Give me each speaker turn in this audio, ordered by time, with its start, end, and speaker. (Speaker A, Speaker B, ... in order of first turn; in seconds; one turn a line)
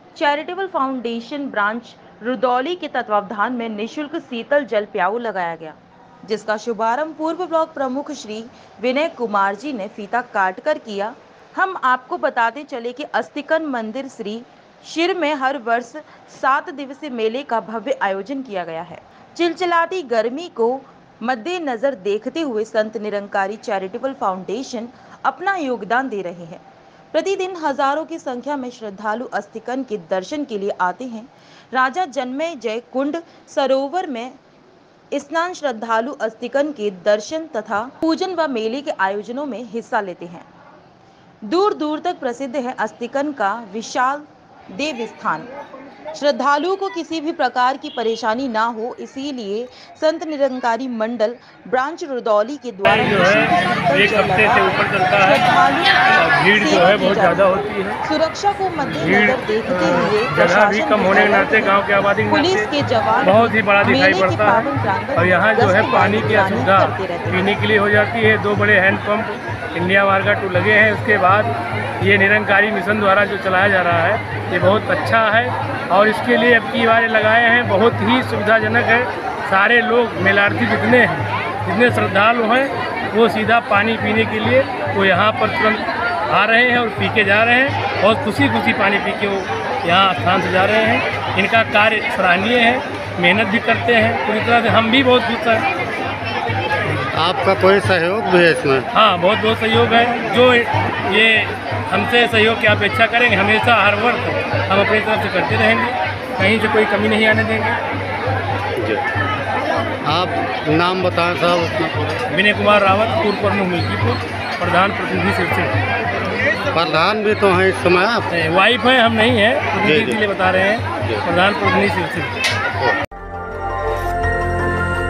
Speaker A: 0.1-26.6
Speaker A: 27.1-34.4
Speaker A: 35.1-40.5
Speaker A: 41.5-45.5
Speaker A: 46.1-61.8
Speaker B: 52.9-55.4
Speaker B: 56.2-58.0
Speaker B: 59.0-62.7
Speaker A: 62.3-67.5
Speaker B: 63.2-95.7
Speaker C: 97.2-98.9
Speaker B: 98.9-107.8
Speaker C: 108.8-109.1
Speaker C: 110.1-112.2
Speaker B: 112.3-115.7
Speaker C: 116.7-118.3
Speaker B: 118.3-122.3
Speaker C: 119.8-120.2